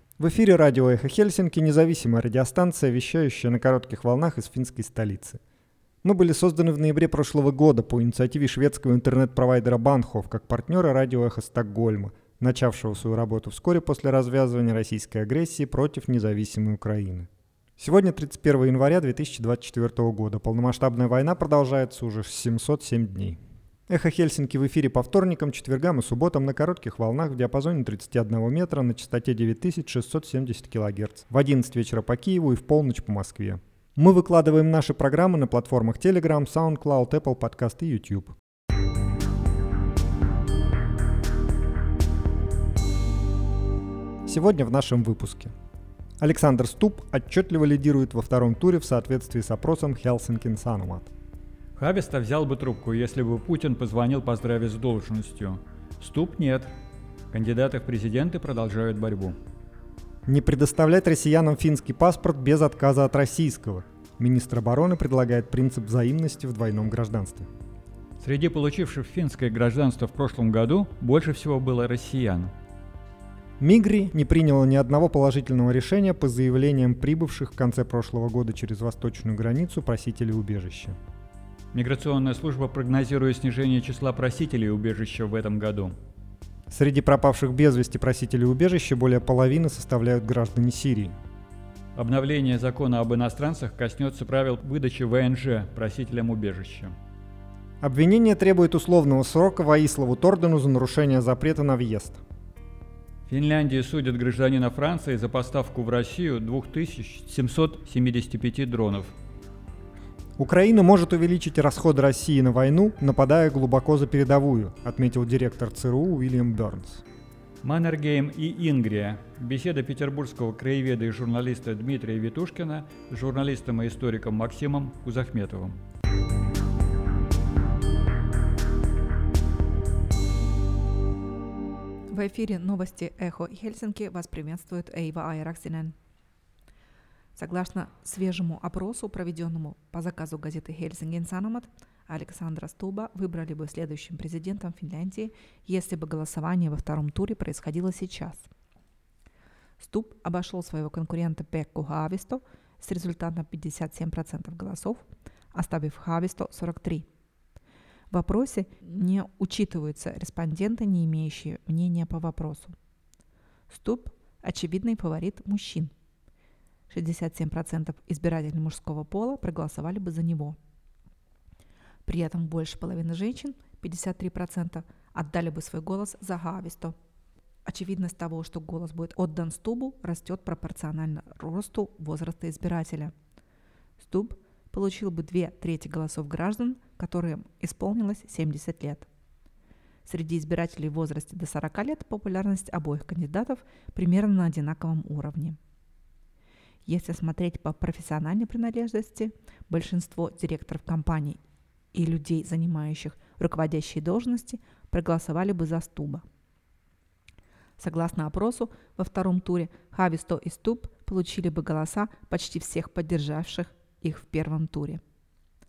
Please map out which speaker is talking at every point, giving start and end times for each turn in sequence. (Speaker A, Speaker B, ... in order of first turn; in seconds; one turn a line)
Speaker A: 0.2-5.4
Speaker A: 6.0-38.4
Speaker A: 44.3-45.5
Speaker A: 46.2-51.1
Speaker B: 51.8-56.7
Speaker B: 57.3-59.4
Speaker A: 60.3-67.5
Speaker B: 68.2-72.5
Speaker A: 73.6-81.0
Speaker B: 81.7-86.0
Speaker A: 86.7-91.2
Speaker B: 92.0-97.0
Speaker A: 97.8-102.2
Speaker B: 103.3-109.1
Speaker A: 110.4-117.0
Speaker B: 117.6-125.8
Speaker C: 132.1-135.9
Speaker C: 137.4-148.5
Speaker C: 149.8-157.1
Speaker C: 158.1-162.8
Speaker C: 163.7-165.9
Speaker C: 166.9-170.6
Speaker C: 172.1-177.0
Speaker C: 177.7-183.1
Speaker C: 184.0-189.1
Speaker C: 190.1-195.6
Speaker C: 196.8-201.4
Speaker C: 201.9-206.2
Speaker C: 207.8-215.0